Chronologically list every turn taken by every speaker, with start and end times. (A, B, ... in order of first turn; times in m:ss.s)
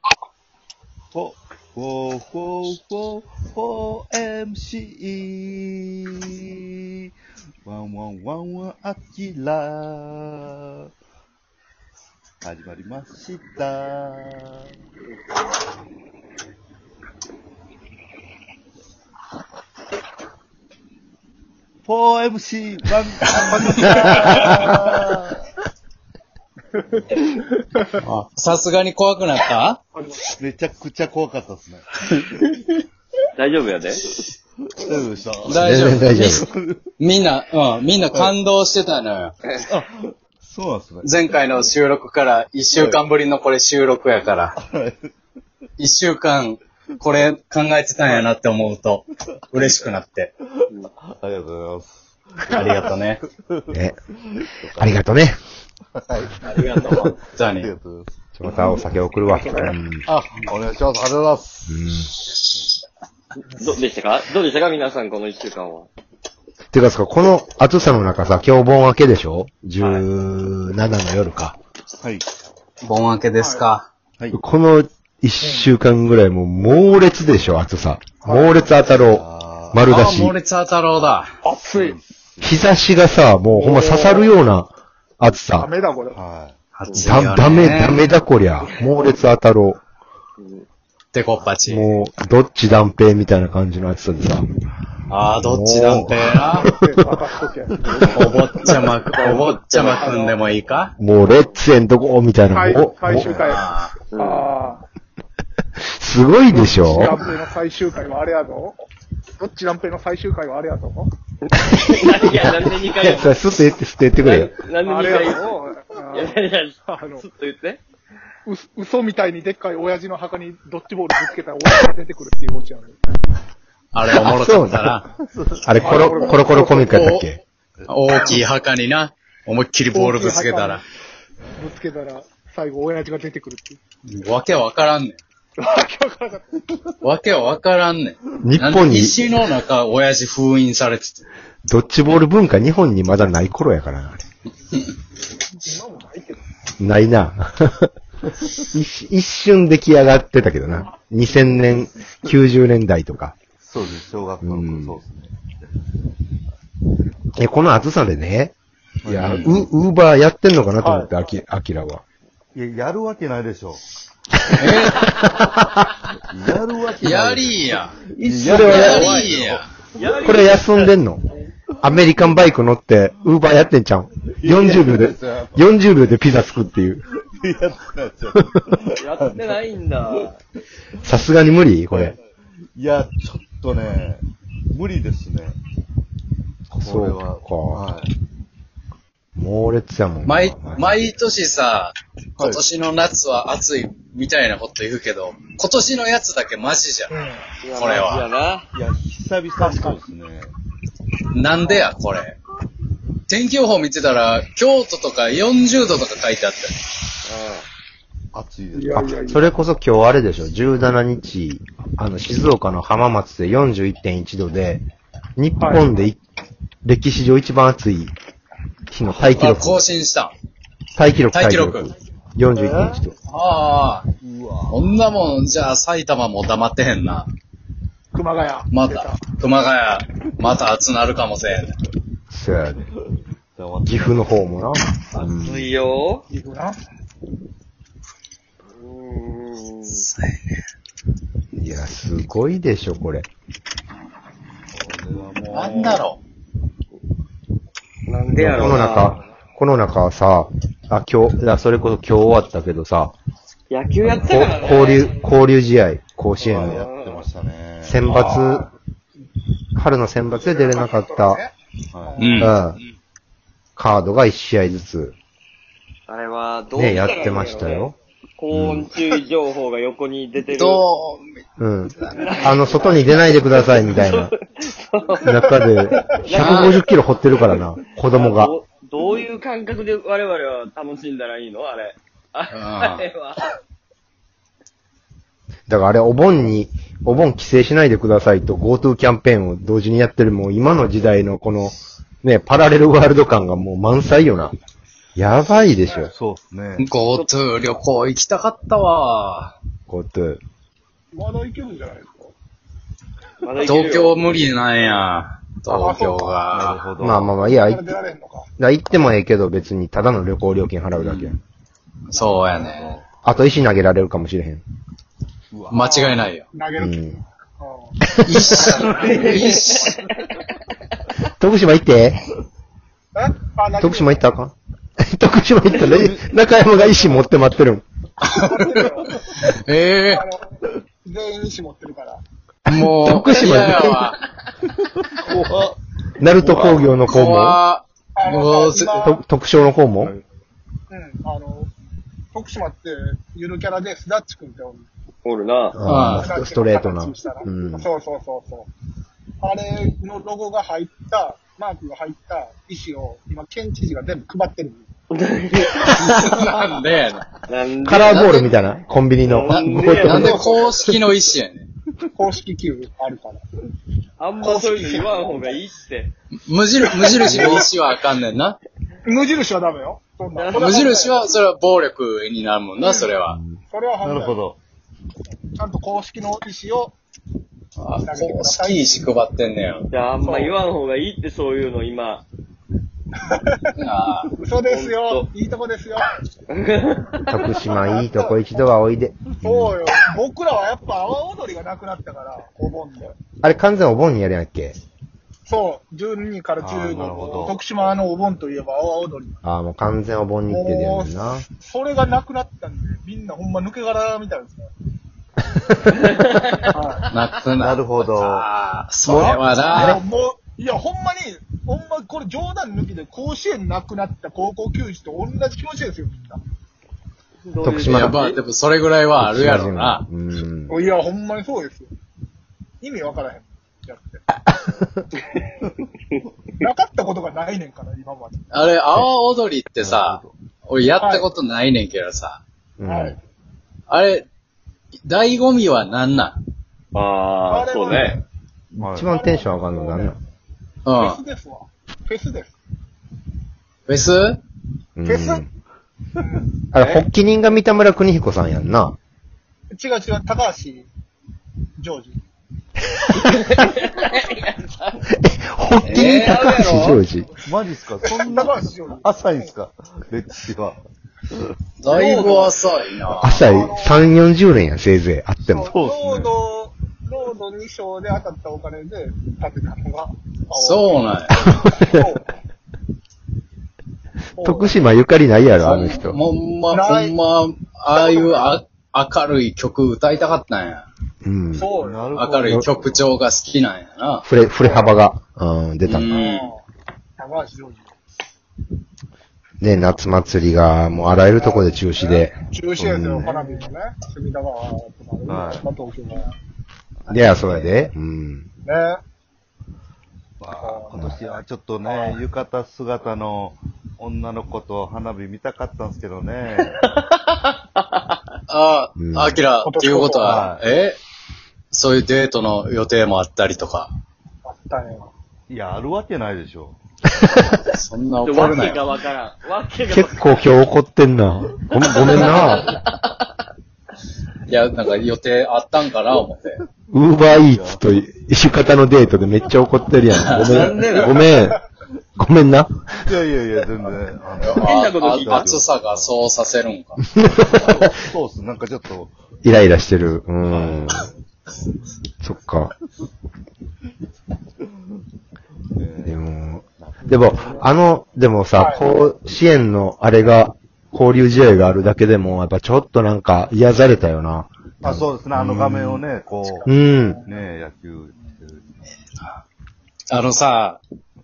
0:01.1-0:07.1 A
0:07.6-0:10.9 A
0:12.4-0:14.7 A
0:21.8-0:25.4 A
0:23.3-0:24.8 B
0:27.9-0:29.8 C
0:29.9-0:30.3 B
0:30.4-0:31.8 A
0:33.4-0:34.2 D
0:34.7-0:36.8 A
0:35.4-0:36.4 C
0:35.5-0:36.4 E
0:37.0-0:39.4 C
0:39.6-0:41.1 A
0:41.0-0:44.6 C
0:44.5-0:45.1 A
0:45.8-0:50.3 C
0:51.0-0:53.8 A
0:52.4-0:53.2 C
0:54.4-0:55.0 A
0:54.8-0:55.4 E
0:56.0-0:58.8 A
0:56.4-0:57.2 D
0:57.3-0:57.7 C
0:58.4-1:00.1 E
0:59.3-0:59.7 B
1:00.0-1:01.9 A
1:01.7-1:02.1 E
1:03.6-1:05.9 D
1:06.7-1:11.6 E
1:12.8-1:13.9 C
1:13.4-1:13.6 B
1:14.3-1:20.3 E
1:15.4-1:15.7 B
1:18.2-1:18.7 B
1:19.0-1:19.8 A
1:19.9-1:21.3 C
1:21.4-1:22.0 B
1:21.6-1:22.7 A
1:22.4-1:25.7 E
1:23.5-1:24.3 B
1:25.6-1:26.2 B
1:26.1-1:26.6 A
1:26.8-1:28.0 C
1:27.0-1:29.8 E
1:30.4-1:30.6 D
1:31.1-1:32.0 C
1:31.7-1:34.5 E
1:35.1-1:36.7 C
1:35.4-1:37.0 E
1:36.5-1:38.0 B
1:37.8-1:38.3 D
1:38.0-1:40.9 C
1:39.1-1:40.1 D
1:40.0-1:40.4 B
1:41.0-1:43.5 E
1:41.3-1:41.6 D
1:42.5-1:44.8 B
1:43.2-1:44.0 C
1:44.1-1:44.5 D
1:46.0-1:47.2 E
1:46.5-1:48.8 B
1:49.4-1:51.1 B
1:51.5-1:53.4 D
1:51.8-1:54.5 E
1:54.2-1:55.6 D
1:54.8-1:57.2 B
1:56.1-1:57.8 D
1:58.4-2:03.0 B
2:03.9-2:05.1 C
2:04.1-2:05.0 E
2:05.2-2:05.8 A
2:05.6-2:07.4 E
2:05.8-2:07.0 B
2:05.8-2:10.8 C
2:09.9-2:10.8 B
2:11.6-2:13.8 B
2:14.0-2:15.2 C
2:15.6-2:16.6 B
2:17.0-2:21.2 C
2:18.4-2:19.2 E
2:21.7-2:24.2 E
2:25.6-2:26.4 B
2:26.8-2:27.9 E
2:28.7-2:33.4 E
2:33.6-2:35.3 A
2:34.4-2:35.0 E
2:37.4-2:38.5 E
2:39.0-2:39.5 A
2:39.0-2:42.0 E
2:39.2-2:39.6 C
2:40.8-2:41.1 B
2:42.5-2:43.8 A
2:44.5-2:45.9 E
2:44.6-2:45.1 C
2:46.3-2:49.6 A
2:47.0-2:49.7 C
2:48.2-2:49.1 E
2:49.9-2:50.9 D
2:50.2-2:51.2 E
2:51.8-2:57.0 E
2:54.4-2:55.6 A
2:57.2-3:00.3 A
2:59.0-3:00.4 D
3:01.0-3:02.1 E
3:01.9-3:02.2 A
3:02.7-3:05.6 A
3:06.7-3:08.1 A
3:06.8-3:07.8 E
3:09.4-3:11.1 E
3:10.2-3:17.1 C
3:17.1-3:17.4 B
3:17.6-3:18.7 D
3:17.7-3:18.3 C
3:18.7-3:20.5 A
3:19.6-3:20.0 B
3:21.3-3:22.4 C
3:23.3-3:26.8 C
3:27.2-3:27.6 D
3:28.3-3:29.2 A
3:28.7-3:29.4 B
3:29.3-3:34.8 E
3:35.4-3:36.2 E
3:35.6-3:36.0 B
3:36.8-3:38.1 E
3:38.9-3:39.8 E
3:39.0-3:40.3 C
3:40.9-3:43.1 E
3:41.3-3:41.9 C
3:42.5-3:43.0 B
3:43.3-3:44.0 C
3:44.2-3:44.9 A
3:44.7-3:47.3 C
3:48.1-3:49.2 B
3:48.7-3:51.8 C
3:52.3-3:52.9 E
3:53.5-3:54.3 A
3:53.8-3:55.7 E
3:55.1-3:56.2 D
3:56.3-3:56.8 B
3:58.7-4:00.0 D
3:59.9-4:00.6 C
4:01.5-4:03.3 E
4:04.7-4:06.1 A
4:05.5-4:06.2 C
4:08.1-4:09.2 D
4:08.4-4:13.1 E
4:13.7-4:15.2 D
4:14.1-4:14.5 A
4:14.2-4:16.9 E
4:16.4-4:18.6 A
4:16.5-4:17.2 D
4:17.8-4:18.7 E
4:18.1-4:18.4 C
4:19.8-4:21.4 E
4:20.4-4:22.6 B
4:21.9-4:22.3 A
4:22.2-4:22.8 C
4:22.4-4:22.8 E
4:23.8-4:25.1 E
4:26.1-4:30.8 D
4:26.7-4:27.9 E
4:28.5-4:28.9 E
4:30.5-4:31.2 C
4:31.6-4:34.3 E
4:32.1-4:35.5 D
4:35.2-4:38.5 E
4:36.1-4:36.9 D
4:36.4-4:36.8 C
4:38.1-4:43.5 D
4:42.5-4:43.0 C
4:45.7-4:54.5 E
4:55.2-4:56.1 E
4:55.8-4:56.1 B
4:56.1-4:56.9 A
4:56.8-4:59.6 C
4:59.9-5:00.4 E
5:01.1-5:02.3 B
5:03.4-5:04.2 D
5:03.6-5:06.8 C
5:05.7-5:06.6 B
5:06.5-5:07.3 A
5:07.0-5:07.9 E
5:07.2-5:08.5 B
5:08.6-5:11.4 E
5:11.0-5:11.4 C
5:12.1-5:12.9 C
5:12.1-5:12.9 B
5:12.4-5:13.0 A
5:13.2-5:14.6 E
5:15.5-5:15.9 A
5:15.7-5:16.4 C
5:15.8-5:20.0 B
5:16.8-5:17.2 E
5:18.0-5:18.6 E
5:18.2-5:20.0 C
5:18.7-5:19.6 A
5:19.2-5:19.6 D
5:21.3-5:22.2 E
5:23.1-5:24.2 B
5:23.8-5:27.8 E
5:25.7-5:27.2 A
5:28.2-5:29.2 B
5:28.2-5:28.8 C
5:29.4-5:30.2 C
5:30.1-5:30.4 B
5:31.0-5:32.2 B
5:32.7-5:34.2 C
5:32.7-5:34.1 E
5:34.8-5:35.8 A
5:36.2-5:37.6 E
5:36.4-5:38.9 C
5:38.2-5:39.2 B
5:39.0-5:40.1 E
5:40.9-5:41.7 B
5:42.3-5:44.8 B
5:45.2-5:45.8 D
5:45.7-5:47.9 E
5:45.8-5:46.3 C
5:46.1-5:48.7 B
5:49.4-5:54.9 B
5:55.1-5:55.9 D
5:55.8-5:56.4 E
5:56.0-5:57.3 C
5:57.5-5:58.7 D
5:57.8-6:00.4 E
5:59.2-6:00.4 D
5:59.5-6:01.7 C
6:00.0-6:00.9 B
6:02.1-6:03.4 B
6:04.2-6:06.1 D
6:04.4-6:05.5 B
6:06.4-6:08.6 C
6:06.8-6:07.7 B
6:07.3-6:07.6 A
6:09.0-6:11.3 B
6:10.3-6:10.8 D
6:10.5-6:13.4 C
6:12.8-6:13.1 B
6:13.3-6:13.6 E
6:13.7-6:14.4 B
6:14.0-6:14.6 A
6:15.6-6:16.9 B
6:17.8-6:19.9 C
6:18.0-6:18.9 B
6:19.9-6:22.2 D
6:20.2-6:20.6 B
6:23.2-6:23.6 B
6:23.8-6:24.3 C
6:24.4-6:26.0 B
6:24.6-6:25.3 D
6:26.5-6:27.3 D
6:27.2-6:29.8 E
6:27.6-6:28.6 B
6:29.4-6:33.2 B
6:33.4-6:34.8 E
6:35.4-6:39.4 B
6:36.6-6:37.6 A
6:39.4-6:41.4 E
6:40.5-6:44.7 B
6:45.9-6:46.7 D
6:46.7-6:47.1 B
6:47.1-6:50.0 C
6:47.5-6:48.5 A
6:49.0-6:56.4 B
6:57.4-6:58.4 D
6:57.6-6:58.2 E
6:57.8-7:00.0 C
6:59.2-7:00.8 E
7:00.7-7:01.9 B
7:02.8-7:04.2 B
7:06.6-7:08.7 B
7:08.5-7:12.4 C
7:09.9-7:10.3 A
7:11.0-7:11.3 B
7:12.8-7:13.2 E
7:12.8-7:13.2 B
7:13.9-7:14.2 C
7:15.0-7:16.4 C
7:16.9-7:18.2 D
7:17.5-7:18.2 B
7:18.7-7:20.2 E
7:18.8-7:19.1 A
7:19.0-7:20.2 B
7:20.8-7:21.2 C
7:20.9-7:22.6 B
7:23.9-7:24.4 C
7:25.0-7:25.5 E
7:25.0-7:25.4 B
7:26.2-7:26.5 B
7:26.7-7:29.0 E
7:26.8-7:27.0 D
7:29.7-7:30.9 B
7:31.8-7:32.2 B
7:33.2-7:34.9 D
7:35.1-7:37.4 E
7:35.8-7:36.4 C
7:35.9-7:37.0 D
7:37.4-7:40.8 A
7:38.0-7:39.5 B
7:41.8-7:43.3 C
7:41.8-7:42.5 B
7:43.2-7:44.0 B
7:43.2-7:45.7 E
7:45.5-7:52.3 B
7:45.5-7:46.3 A
7:50.5-7:51.3 C
7:51.3-7:52.0 E
7:54.4-7:54.9 B
7:54.4-7:56.2 E
7:55.6-8:00.8 C
7:56.7-7:57.1 B
7:57.9-7:58.5 B
8:01.2-8:01.7 E
8:01.5-8:02.1 B
8:01.7-8:03.1 A
8:02.1-8:04.2 C
8:04.2-8:06.1 E
8:04.6-8:04.9 B
8:05.8-8:06.5 C
8:06.1-8:06.6 B
8:07.2-8:07.9 B
8:09.6-8:12.4 E
8:11.3-8:16.3 B
8:12.7-8:13.7 A
8:15.3-8:15.7 A
8:17.1-8:17.9 B
8:17.1-8:18.5 E
8:18.6-8:19.0 B
8:20.4-8:26.8 A
8:20.6-8:22.2 B
8:28.5-8:31.0 C
8:29.0-8:29.4 E
8:29.6-8:30.5 B
8:30.2-8:30.7 A
8:31.7-8:33.9 C
8:34.4-8:35.1 B
8:35.5-8:36.8 A
8:37.7-8:38.8 C
8:38.2-8:40.5 D
8:39.8-8:42.7 E
8:41.9-8:43.1 D
8:44.5-8:46.6 C
8:46.9-8:51.6 E
8:47.5-8:47.8 A
8:50.1-8:51.0 C
8:50.4-8:51.2 D
8:52.2-8:52.9 E
8:53.0-8:56.1 A
8:54.4-8:57.0 C
8:54.6-8:55.6 D
8:57.2-8:58.0 E
8:57.4-8:59.1 A
8:59.4-9:01.1 E
9:00.5-9:00.9 C
9:02.2-9:02.7 E
9:05.7-9:06.2 A
9:06.0-9:16.0 E
9:06.8-9:07.6 A
9:08.5-9:08.8 B
9:14.8-9:16.7 A
9:16.4-9:17.4 B
9:16.7-9:17.2 E
9:17.2-9:18.8 A
9:20.1-9:20.8 C